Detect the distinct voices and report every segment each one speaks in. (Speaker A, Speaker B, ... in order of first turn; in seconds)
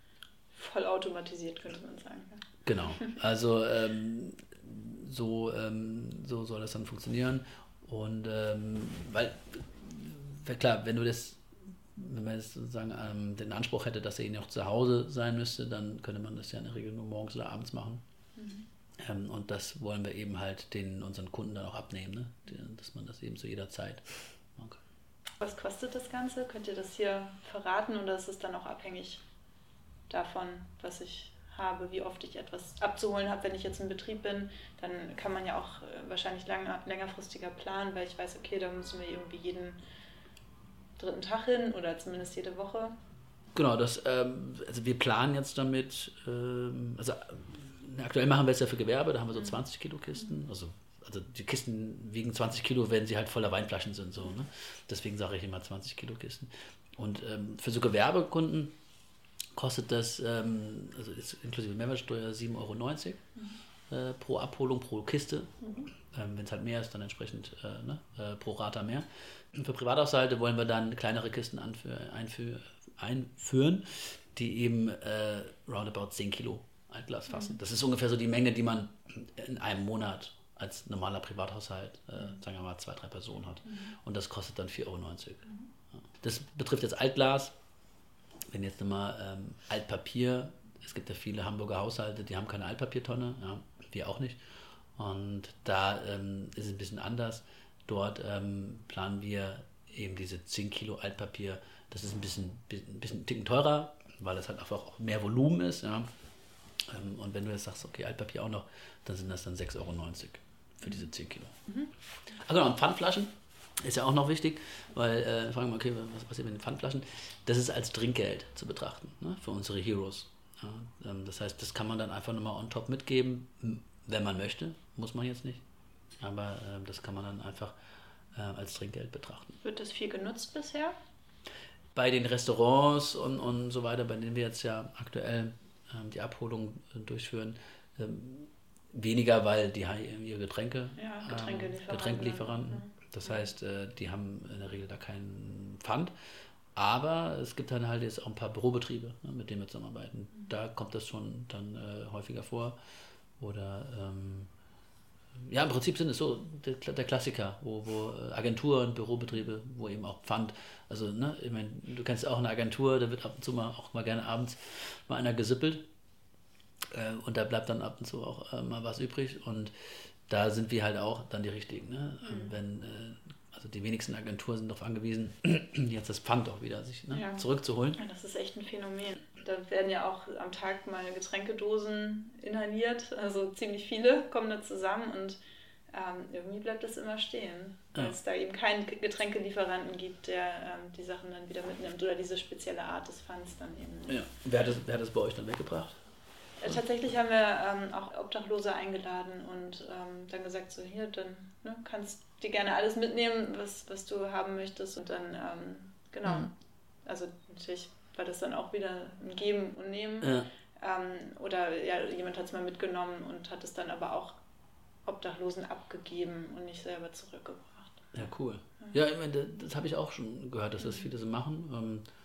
Speaker A: 0.5-2.4, 18.4-18.7, 25.4-29.2, 30.1-39.8, 41.0-43.0, 65.6-65.9, 77.3-77.6, 83.7-83.9, 129.6-130.9, 141.0-143.5, 172.2-172.6, 177.1-185.4, 185.9-194.2, 196.6-206.5, 207.1-214.4, 215.1-218.3, 220.8-221.1
Speaker B: 2.6-18.0, 19.0-24.8, 43.5-58.7, 59.5-63.3, 63.9-85.5, 86.1-87.5, 88.5-94.4, 95.0-106.1, 106.8-111.6, 112.3-125.6, 126.2-127.8, 128.3-129.6, 131.9-146.1, 146.8-152.8, 153.4-154.5, 155.4-165.9, 166.9-169.7, 170.3-178.0, 194.1-196.0, 210.2-210.5, 218.2-222.1